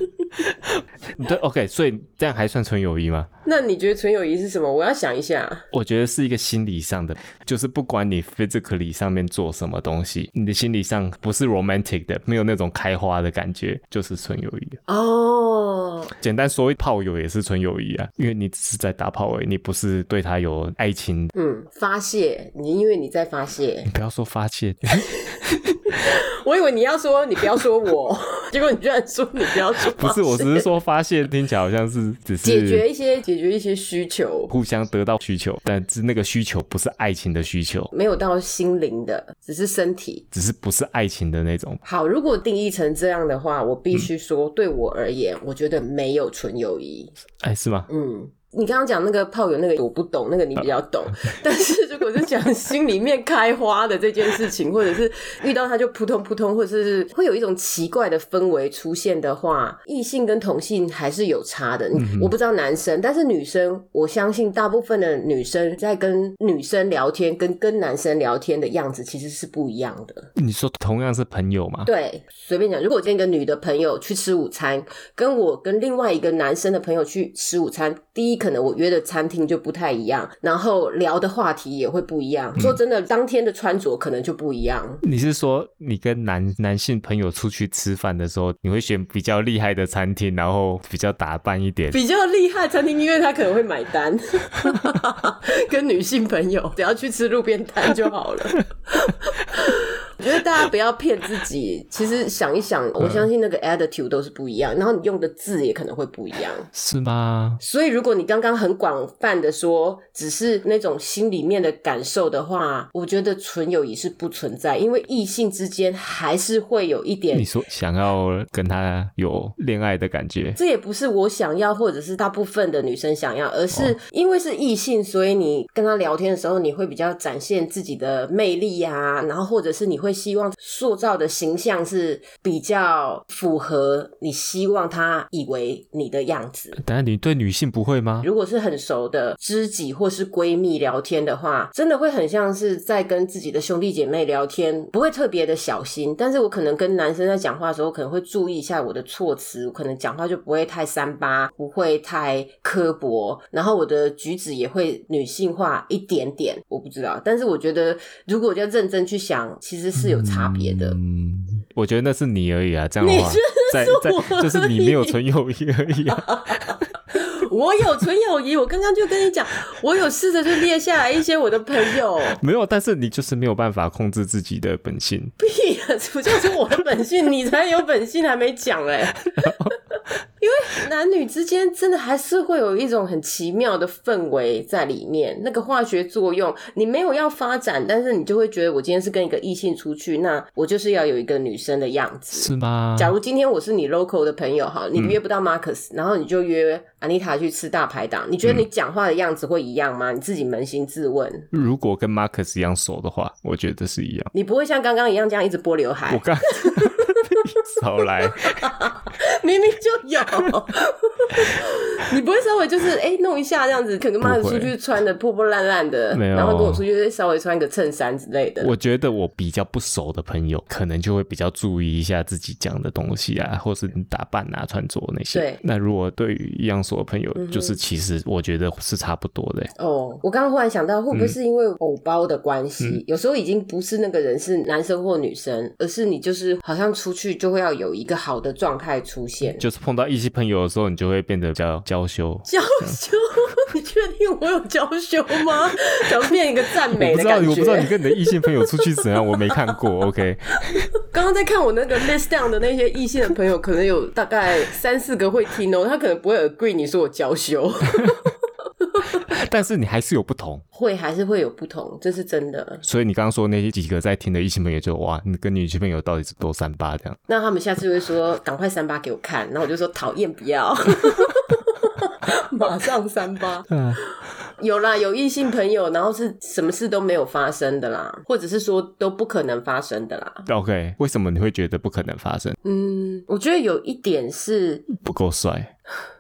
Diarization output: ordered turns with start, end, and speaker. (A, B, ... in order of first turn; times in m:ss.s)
0:00.4-0:03.3 A
0:03.4-0:05.6 B
0:05.7-0:14.8 A
0:14.9-0:16.1 B
0:16.2-0:21.3 A
0:21.4-0:23.9 B
0:23.9-0:25.5 A
0:24.9-0:30.7 B
0:29.8-0:32.8 A
0:32.4-0:34.5 B
0:34.5-0:37.9 A
0:37.9-0:40.3 B
0:40.3-0:41.8 A
0:41.8-0:47.2 B
0:47.4-0:47.9 A
0:47.9-1:10.3 B
1:02.0-1:02.3 A
1:10.4-1:11.9 A
1:11.8-1:25.0 B
1:25.0-1:32.0 A
1:31.9-1:46.7 B
1:43.0-1:43.3 A
1:46.7-1:47.6 A
1:47.6-1:57.5 B
1:57.3-2:00.6 A
2:00.6-2:16.8 B
2:16.8-2:18.3 A
2:18.2-2:41.0 B
2:40.0-2:46.8 A
2:43.0-2:45.2 B
2:46.1-2:52.4 B
2:52.2-2:55.3 A
2:55.4-2:59.7 B
2:59.4-2:59.8 A
3:00.4-3:21.5 B
3:12.3-3:13.2 A
3:21.5-3:24.3 A
3:24.3-3:27.6 B
3:26.1-3:28.9 A
3:28.4-3:38.7 B
3:34.2-3:34.7 A
3:36.1-3:36.8 A
3:38.6-3:49.7 A
3:45.3-3:45.6 B
3:47.4-3:47.8 B
3:49.8-3:59.6 B
3:51.1-3:51.4 A
3:59.6-4:03.0 A
4:02.5-4:09.8 B
4:06.9-4:10.9 A
4:10.8-4:19.2 B
4:19.2-4:20.6 A
4:20.7-4:22.8 B
4:22.8-4:27.2 A
4:27.3-4:33.7 B
4:33.7-4:34.0 A
4:34.6-4:40.5 B
4:40.5-4:42.6 A
4:42.6-4:44.9 B
4:44.9-4:45.7 A